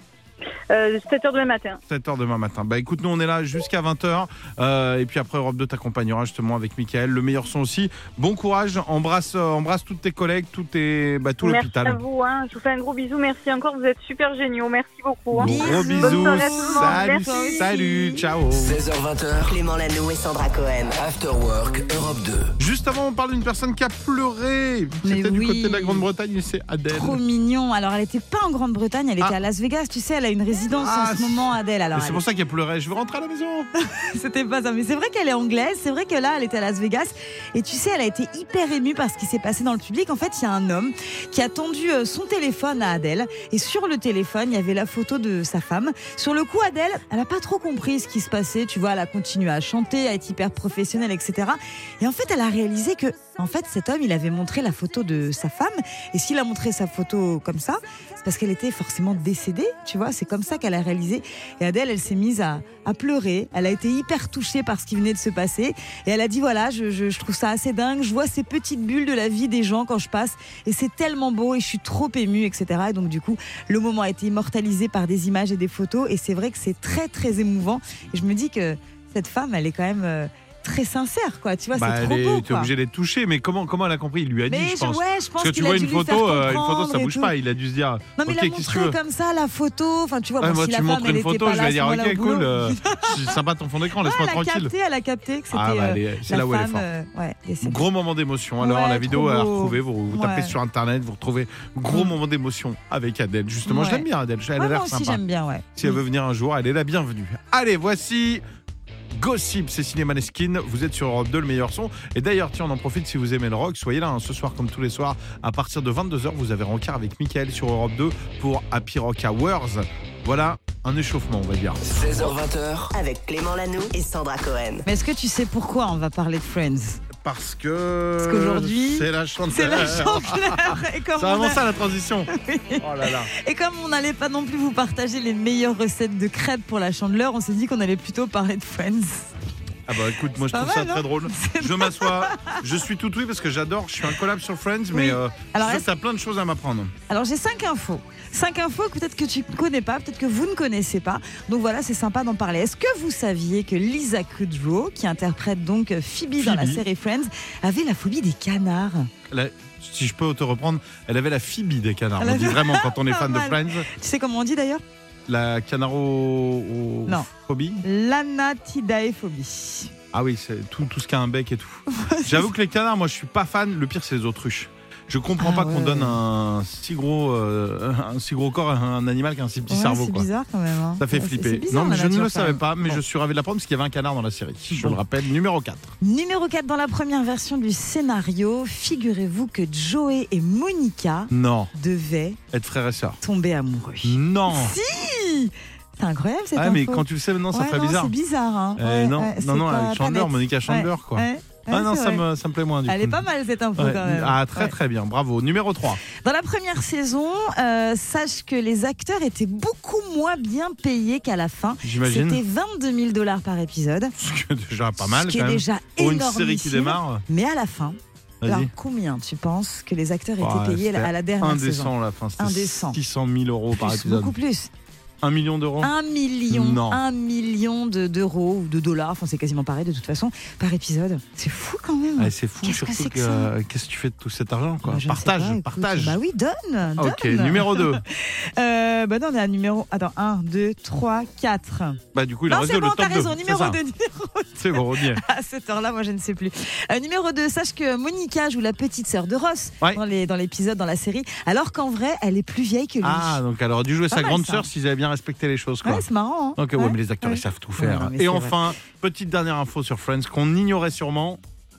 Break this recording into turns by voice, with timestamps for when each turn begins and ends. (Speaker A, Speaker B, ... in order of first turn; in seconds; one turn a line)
Speaker A: 0.7-1.8
Speaker B: 1.9-12.0
Speaker A: 11.4-17.6
Speaker B: 15.3-18.8
Speaker C: 15.4-18.3
Speaker D: 18.6-19.6
Speaker E: 19.4-21.0
Speaker D: 20.9-22.5
Speaker B: 22.6-27.2
Speaker C: 25.0-26.1
Speaker C: 26.9-32.2
Speaker B: 30.7-33.7
Speaker C: 33.8-82.7
Speaker B: 81.7-89.0
Speaker C: 84.5-87.3
Speaker C: 88.2-93.4
Speaker B: 90.4-94.7
Speaker C: 94.0-97.8
Speaker B: 95.5-96.8
Speaker B: 97.6-105.2
Speaker C: 98.6-100.5
Speaker C: 103.6-104.0
Speaker C: 104.6-106.0
Speaker B: 105.8-108.4
Speaker B: 109.1-122.0
Speaker D: 121.9-122.9
Speaker E: 122.9-124.8
Speaker C: 124.8-127.0
Speaker B: 127.2-133.3
Speaker C: 128.2-131.7
Speaker C: 132.3-139.3
Speaker B: 139.9-146.9
Speaker C: 140.5-142.5
Speaker C: 144.9-145.9
Speaker C: 147.1-159.1
Speaker B: 156.4-156.8
Speaker B: 159.3-163.9
Speaker C: 162.2-164.8
Speaker B: 165.3-167.8
Speaker C: 167.8-169.9
Speaker B: 170.1-180.3
Speaker C: 171.9-172.5
Speaker C: 175.4-176.2
Speaker C: 179.7-183.0
Speaker B: 181.0-185.9
Speaker C: 184.7-185.0
Speaker C: 186.0-192.4
Speaker B: 191.3-191.7
Speaker B: 192.5-193.2
Speaker C: 193.2-202.2
Speaker B: 194.0-194.7
Speaker B: 196.6-198.1
Speaker B: 198.8-203.2
Speaker C: 202.9-204.7
Speaker B: 203.8-206.0
Speaker C: 206.1-214.1
Speaker B: 211.8-212.4
Speaker B: 214.2-217.2
Speaker C: 215.0-223.0
Speaker B: 218.4-218.7
Speaker B: 220.4-224.3
Speaker C: 223.8-224.7
Speaker B: 225.2-225.9
Speaker C: 225.8-233.5
Speaker B: 226.5-227.0
Speaker B: 232.2-236.2
Speaker C: 234.8-253.4
Speaker B: 237.0-238.0
Speaker B: 242.1-243.8
Speaker B: 244.6-245.2
Speaker B: 253.0-256.0
Speaker C: 254.1-254.7
Speaker C: 255.8-258.6
Speaker B: 256.6-261.4